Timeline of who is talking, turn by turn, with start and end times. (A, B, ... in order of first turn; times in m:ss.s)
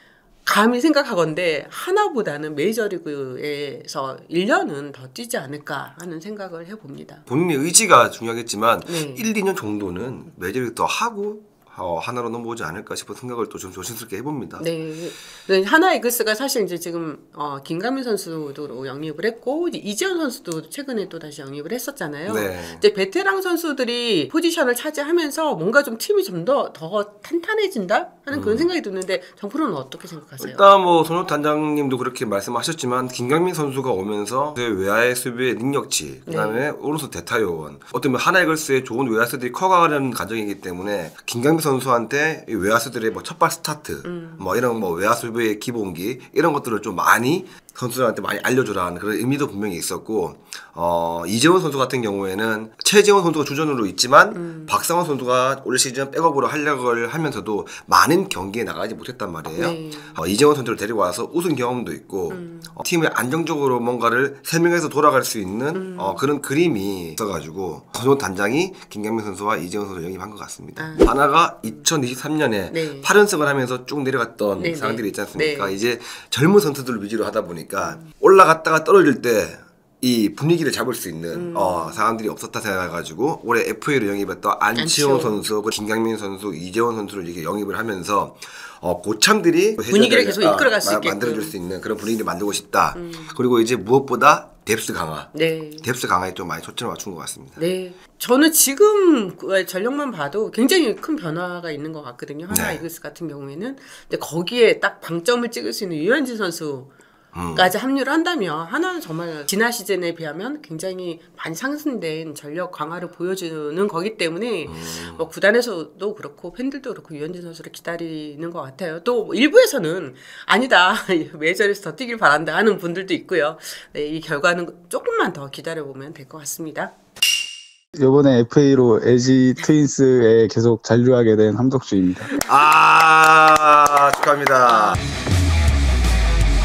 0:00.4-0:07.2 A
0:07.3-0:14.7 B
0:08.9-0:09.3 A
0:14.6-0:30.7 A
0:22.3-0:22.8 B
0:28.3-0:28.7 B
0:30.4-1:37.6 B
0:36.3-0:36.6 A
0:44.0-0:44.5 A
0:54.4-0:54.8 A
0:59.6-1:00.2 A
1:02.3-1:02.8 A
1:05.7-1:06.3 A
1:10.8-1:11.2 A
1:12.7-1:13.1 A
1:14.6-1:15.8 A
1:21.3-1:22.1 A
1:24.8-1:25.4 A
1:29.9-1:31.6 A
1:33.0-1:33.4 A
1:35.3-1:35.9 A
1:37.6-1:46.9 A
1:42.5-1:42.8 B
1:47.3-1:47.7 B
1:47.5-2:06.9 A
1:54.7-1:55.3 B
2:08.0-2:12.3 C
2:12.4-2:15.0 B